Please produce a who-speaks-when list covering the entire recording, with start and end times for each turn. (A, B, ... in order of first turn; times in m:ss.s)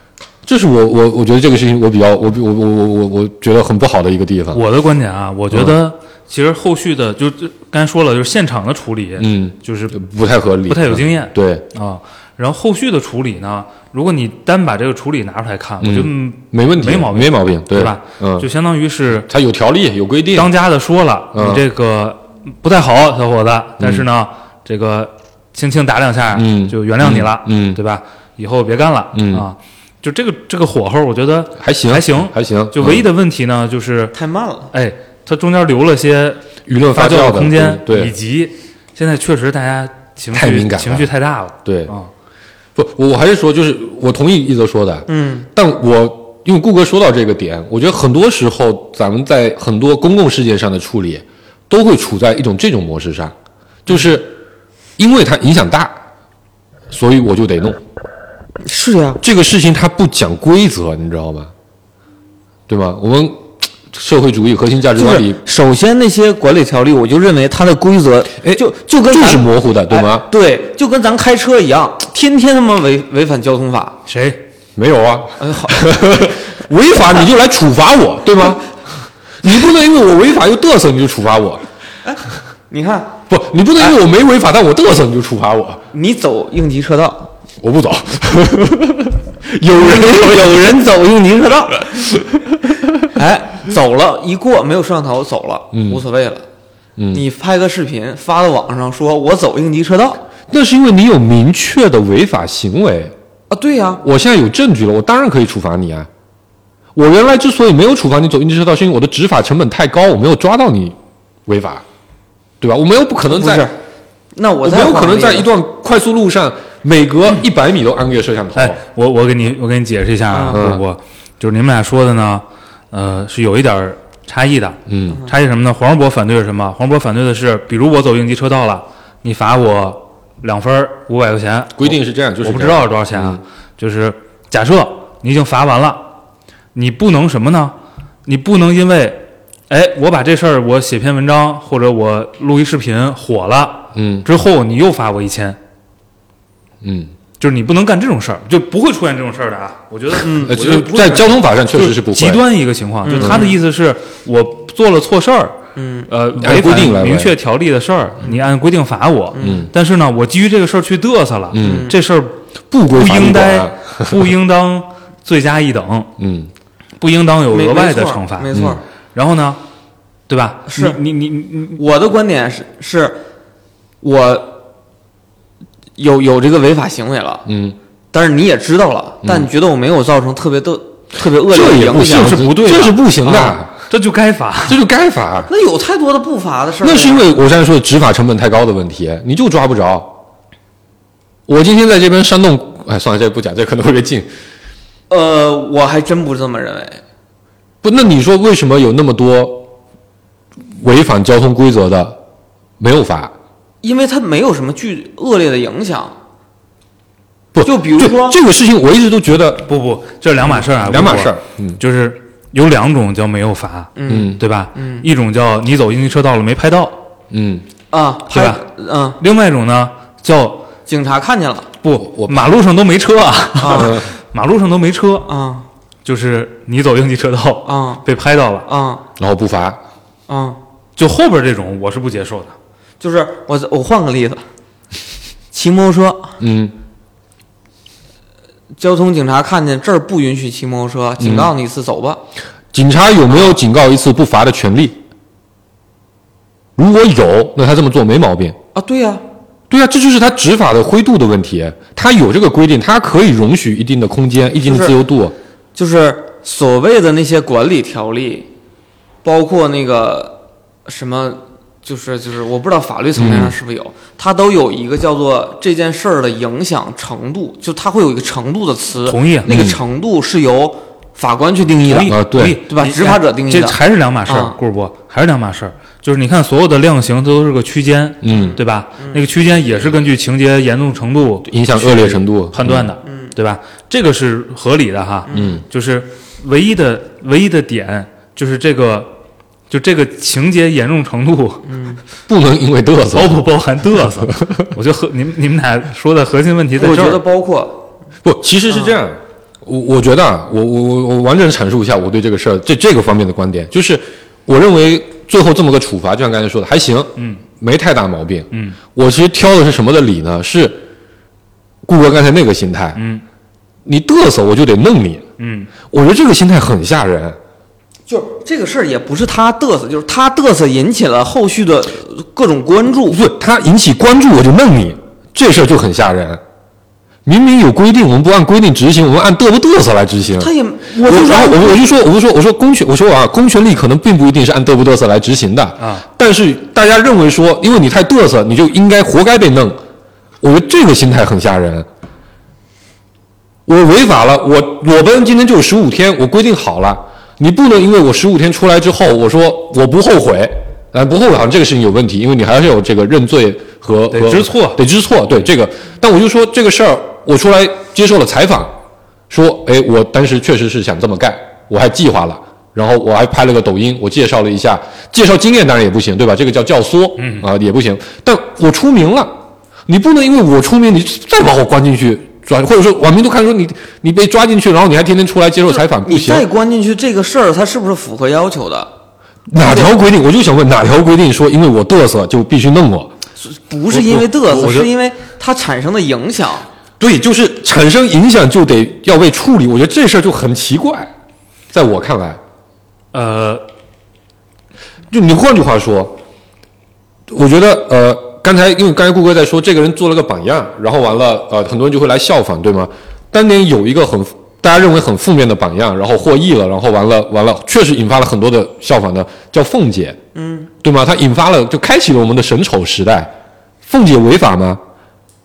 0:00.4-0:04.6 A
0:04.5-0:10.1 B
0:05.5-0:05.8 A
0:09.2-0:11.7 A
0:10.7-0:19.3 B
0:15.8-0:18.5 A
0:19.3-0:20.5 A
0:20.3-0:34.2 B
0:21.3-0:21.6 A
0:23.8-0:24.1 A
0:26.3-0:27.8 A
0:29.1-0:29.5 A
0:31.6-0:33.1 A
0:34.1-0:34.7 C
0:34.7-0:36.4 B
0:36.7-0:38.1 A
0:36.9-0:42.1 B
0:40.3-0:41.1 A
0:41.6-0:41.9 A
0:42.8-0:53.3 A
0:45.1-0:45.5 C
0:53.9-0:54.4 A
0:55.0-0:56.0 A
0:56.9-0:57.8 A
0:58.6-0:59.2 C
0:59.2-1:01.5 A
1:02.7-1:05.4 A
1:05.0-1:14.0 C
1:08.4-1:10.3 A
1:14.1-1:14.4 B
1:14.8-1:18.6 A
1:15.4-1:16.0 C
1:19.4-1:21.6 A
1:22.7-1:23.2 C
1:23.3-1:25.8 A
1:25.9-1:27.3 C
1:27.6-1:30.9 A
1:29.7-1:31.9 C
1:31.8-1:33.0 A
1:33.1-1:36.5 C
1:35.7-1:36.0 A
1:37.0-1:37.2 A
1:37.1-1:40.2 C
1:40.5-1:43.1 A
1:43.5-1:44.0 C
1:44.0-1:46.1 A
1:46.9-1:51.0 A
1:51.5-1:51.8 A
1:52.6-1:53.7 A
1:53.3-1:53.8 C
1:54.3-1:55.5 C
1:54.6-1:58.8 A
1:58.6-2:16.1 B
2:00.3-2:00.7 C
2:00.5-2:00.8 A
2:04.9-2:05.2 A
2:05.1-2:05.3 C
2:11.8-2:13.4 A
2:16.7-2:17.8 B
2:18.3-2:25.6 B
2:24.0-2:24.3 A
2:26.8-2:27.1 A
2:27.4-2:35.6 B
2:30.2-2:30.6 C
2:30.4-2:32.4 A
2:33.0-2:33.6 C
2:33.2-2:33.5 A
2:35.8-2:36.1 C
2:36.1-2:46.1 B
2:36.4-2:37.4 A
2:39.3-2:39.7 C
2:39.4-2:39.7 A
2:41.5-2:41.9 A
2:41.6-2:42.0 C
2:42.7-2:44.3 A
2:46.2-2:46.5 A
2:47.0-2:48.6 B
2:47.5-2:48.8 C
2:48.5-2:48.8 A
2:49.2-2:49.6 B
2:50.3-2:51.8 B
2:50.7-2:51.0 C
2:51.8-2:53.2 C
2:54.0-2:54.6 C
2:56.0-2:57.4 C
2:57.5-2:57.8 A
2:58.1-3:02.5 C
2:59.2-2:59.5 A
3:01.5-3:03.8 A
3:02.0-3:03.0 B
3:03.2-3:03.6 C
3:03.9-3:04.8 B
3:04.6-3:05.5 A
3:05.5-3:07.3 C
3:06.8-3:10.1 A
3:11.5-3:14.3 A
3:15.1-3:17.0 C
3:17.8-3:19.7 A
3:20.8-3:22.2 A
3:22.8-3:23.3 A
3:23.8-3:26.2 C
3:27.5-3:29.7 A
3:27.6-3:28.4 C
3:29.7-3:37.0 B
3:30.5-3:31.8 A
3:34.0-3:35.1 C
3:34.1-3:34.4 A
3:37.3-3:37.7 A
3:37.9-3:39.2 C
3:38.3-3:38.6 B
3:39.2-3:40.7 B
3:40.9-3:41.7 C
3:41.8-3:45.3 B
3:42.0-3:42.5 A
3:43.6-3:44.0 C
3:43.7-3:44.1 A
3:45.3-3:45.7 C
3:46.0-3:48.7 B
3:47.7-3:48.0 C
3:48.7-3:49.0 C
3:49.2-3:49.8 A
3:50.3-3:50.6 C
3:51.0-3:52.6 B
3:53.0-3:54.4 C
3:55.5-3:56.3 C
3:56.4-3:56.7 A
3:58.8-4:02.2 C
4:01.2-4:01.5 A
4:02.7-4:05.0 A
4:06.8-4:08.6 A
4:08.8-4:09.2 C
4:09.7-4:15.3 A
4:14.6-4:15.0 C
4:15.8-4:18.5 C
4:19.2-4:34.6 C
4:23.2-4:23.6 A
4:29.1-4:29.5 B
4:29.5-4:29.8 A
4:31.8-4:49.1 B
4:32.0-4:32.6 A
4:38.2-4:38.6 A
4:38.3-4:39.2 C
4:41.5-4:42.9 A
4:43.0-4:43.3 C
4:45.3-4:45.6 C
4:45.3-4:45.6 A
4:49.7-4:51.7 B
4:51.7-4:52.0 C
4:52.3-4:53.4 A
4:53.1-4:57.2 B
4:54.2-4:54.7 A
4:56.8-4:57.9 C
4:58.2-5:10.8 A
5:08.5-5:08.8 B
5:11.8-5:13.0 A
5:13.0-5:13.2 B
5:13.9-5:15.2 A
5:15.4-5:15.7 B
5:15.9-5:17.4 A
5:18.1-5:23.2 C
5:23.1-5:26.4 A
5:27.3-5:39.8 A
5:30.4-5:31.8 C
5:35.8-5:36.0 B
5:40.4-5:41.9 A
5:43.7-5:58.8 A
5:54.1-5:54.8 B
5:59.3-6:09.4 A
6:07.2-6:07.5 B
6:09.9-6:16.5 A
6:15.8-6:18.9 C
6:19.5-6:23.1 A
6:19.6-6:19.9 C
6:23.4-6:26.7 C
6:23.9-6:24.9 B
6:27.0-6:31.1 A
6:31.7-6:32.4 A
6:33.1-6:33.6 B
6:35.1-6:36.2 A
6:37.3-6:50.2 A
6:50.4-6:50.7 C
6:50.8-6:53.3 A
6:53.8-6:54.8 A